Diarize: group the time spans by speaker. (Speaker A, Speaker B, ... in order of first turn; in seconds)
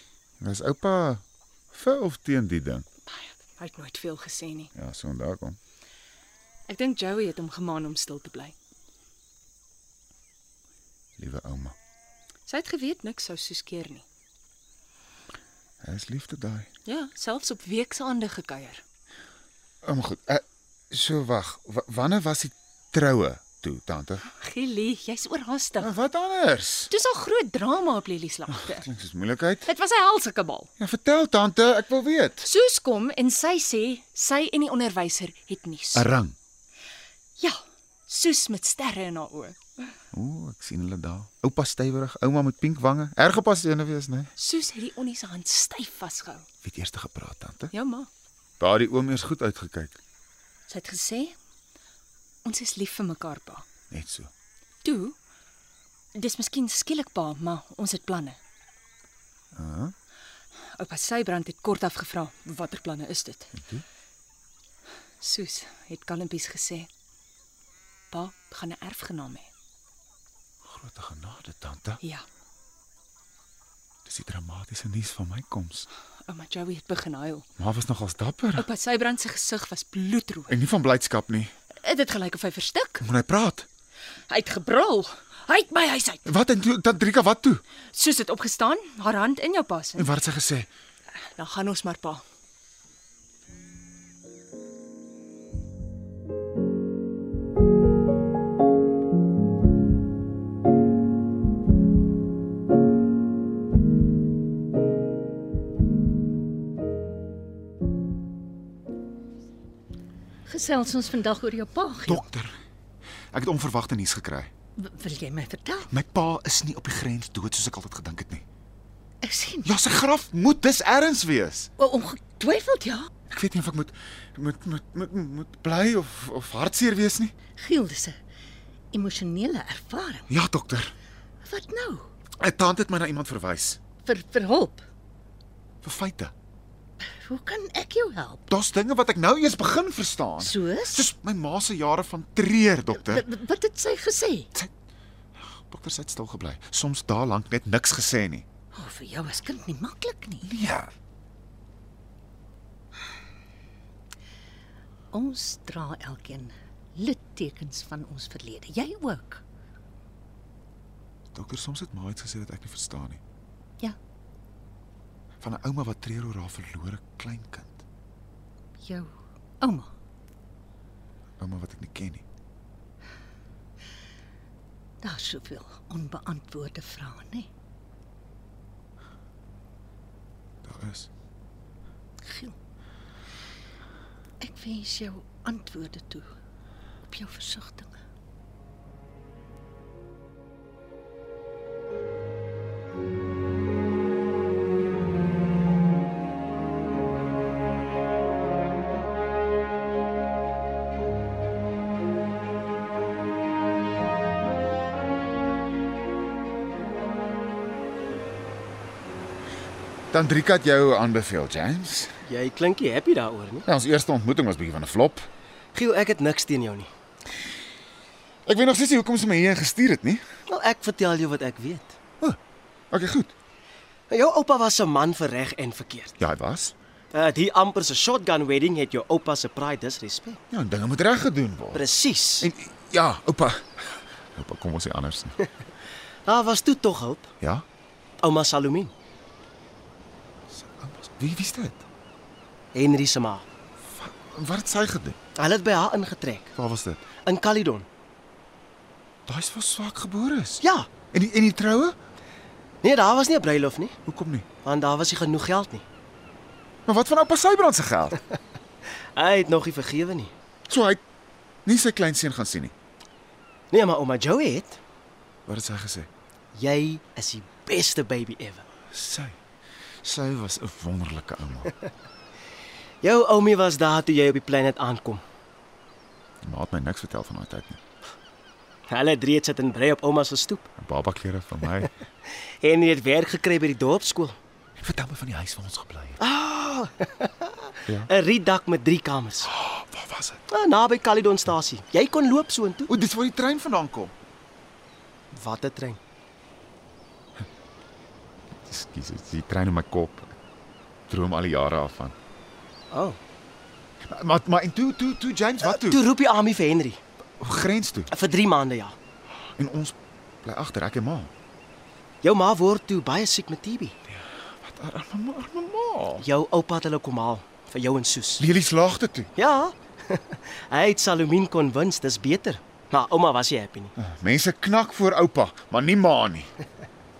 Speaker A: 0.4-2.9, 4.8-5.6, 11.2-11.8, 15.8-16.7, 19.8-24.2, 25.8-26.9, 28.5-29.7, 30.8-32.5, 35.9-36.4, 40.1-44.3, 46.6-47.7, 48.6-50.0, 53.9-54.3, 59.5-59.9, 63.5-63.9, 70.6-72.0, 74.0-75.9, 77.6-78.7, 80.5-81.5, 83.0-83.7, 86.3-87.6, 90.0-90.7, 112.0-112.6, 113.3-114.5, 115.9-118.5, 119.6-121.7, 123.3-127.3, 130.3-130.9, 132.4-133.8, 135.8-136.3, 138.5-143.2, 145.4-148.5, 150.4-150.9, 161.3-163.2, 165.4-167.8, 171.4-172.2, 180.6-181.1, 210.1-212.1, 213.7-215.3, 218.5-220.2, 222.9-223.3, 226.2-226.8, 230.5-231.8, 232.4-235.4, 240.5-241.8, 243.8-245.2, 246.6-247.1, 249.3-252.0, 254.1-254.5, 256.9-258.2, 260.7-261.0, 261.6-262.7, 265.5-266.1, 268.9-269.4, 270.0-271.7, 276.4-277.8, 280.8-281.9, 284.8-286.2, 289.4-290.4, 292.9-294.1, 298.6-300.4, 301.1-302.1, 304.0-306.0, 307.4-308.1, 309.6-311.3, 314.1-316.3, 318.4-319.3, 324.0-326.5
Speaker B: 3.1-4.7, 6.7-8.6, 12.5-14.1, 16.9-18.8, 24.3-25.9, 26.9-28.9, 29.6-30.7, 32.4-36.1, 37.4-39.6, 44.4-46.5, 47.7-48.1, 50.7-51.4, 52.5-53.6, 54.8-55.1, 56.1-58.4, 60.8-63.6, 65.2-66.9, 68.1-69.5, 76.3-77.5, 78.6-80.6, 81.8-83.0, 84.3-86.2, 87.9-90.1, 91.4-92.2
Speaker C: 110.5-112.2, 114.8-115.9, 119.2-119.7, 121.8-123.1, 127.6-128.2, 128.9-130.3, 131.4-132.1, 134.1-134.9, 137.0-138.5, 140.4-141.1, 143.0-144.5, 148.7-150.6, 155.1-159.4, 168.8-169.9, 175.0-177.5, 182.2-182.6, 184.4-186.3, 187.1-187.9
Speaker D: 212.2-213.7, 215.7-216.9, 220.5-222.0, 224.1-226.2, 227.1-230.4, 231.7-232.5, 236.3-237.3, 238.2-238.9, 242.7-243.4, 245.4-246.5, 247.2-247.9, 250.6-250.9, 252.8-254.0, 254.6-255.8, 259.1-260.3, 263.7-264.8, 266.5-268.6, 273.0-275.2, 278.9-280.7, 282.3-284.4, 286.2-289.5, 290.5-292.9, 295.3-296.0, 302.9-303.2, 305.6-307.0, 308.1-309.0, 312.2-314.0, 316.2-318.4, 319.4-323.9